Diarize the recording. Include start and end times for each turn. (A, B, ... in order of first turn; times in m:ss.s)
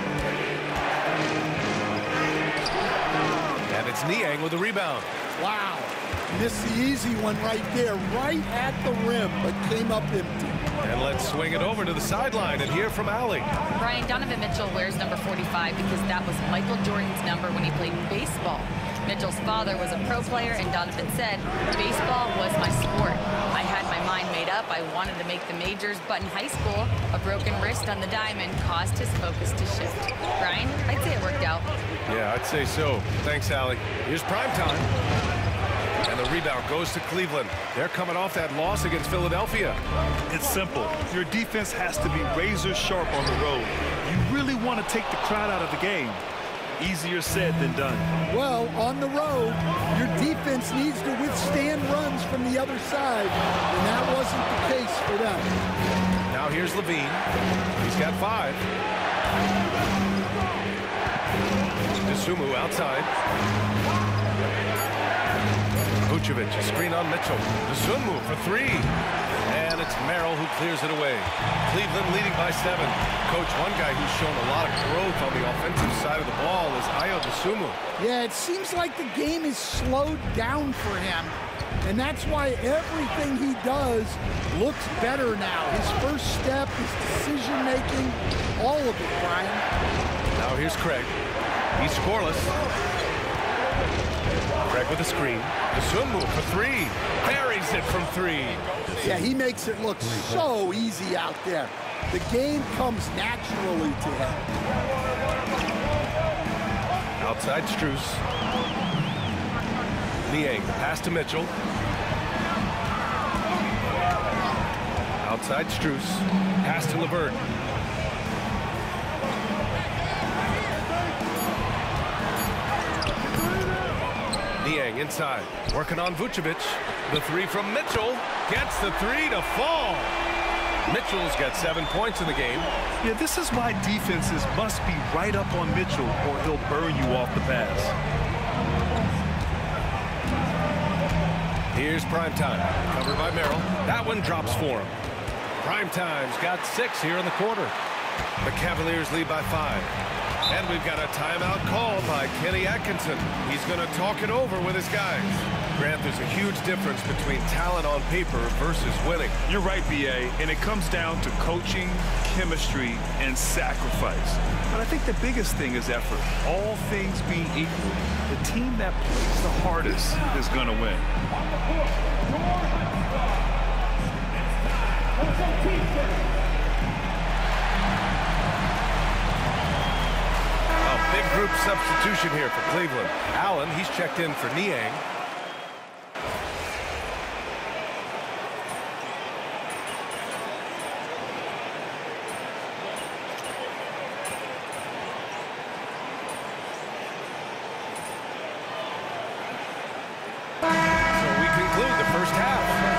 0:03.7-0:05.1 A
0:05.4-0:10.6 B
0:10.8-0:13.5 A
0:13.7-0:31.7 C
0:32.1-0:34.9 A
0:36.0-0:39.8 A
0:40.3-0:46.2 D
0:46.8-0:48.1 D
0:48.3-0:55.5 B
0:56.3-0:57.2 A
0:57.8-0:58.6 A
1:02.0-1:03.1 A
1:06.0-1:08.9 A
1:09.5-1:17.8 A
1:18.0-1:29.6 B
1:30.4-1:31.1 A
1:31.8-1:32.5 A
1:34.6-1:38.8 A
1:39.0-1:44.5 B
1:47.2-1:48.2 A
1:50.2-1:51.5 A
1:55.2-1:57.4 A
2:04.6-2:10.2 A
2:10.8-2:12.7 A
2:13.0-2:17.9 D
2:21.7-2:25.0 A
2:25.6-2:27.7 A
2:28.4-2:29.9 A
2:30.5-2:39.4 A
2:39.5-2:51.1 D
3:00.8-3:05.0 A
3:21.1-3:22.8 A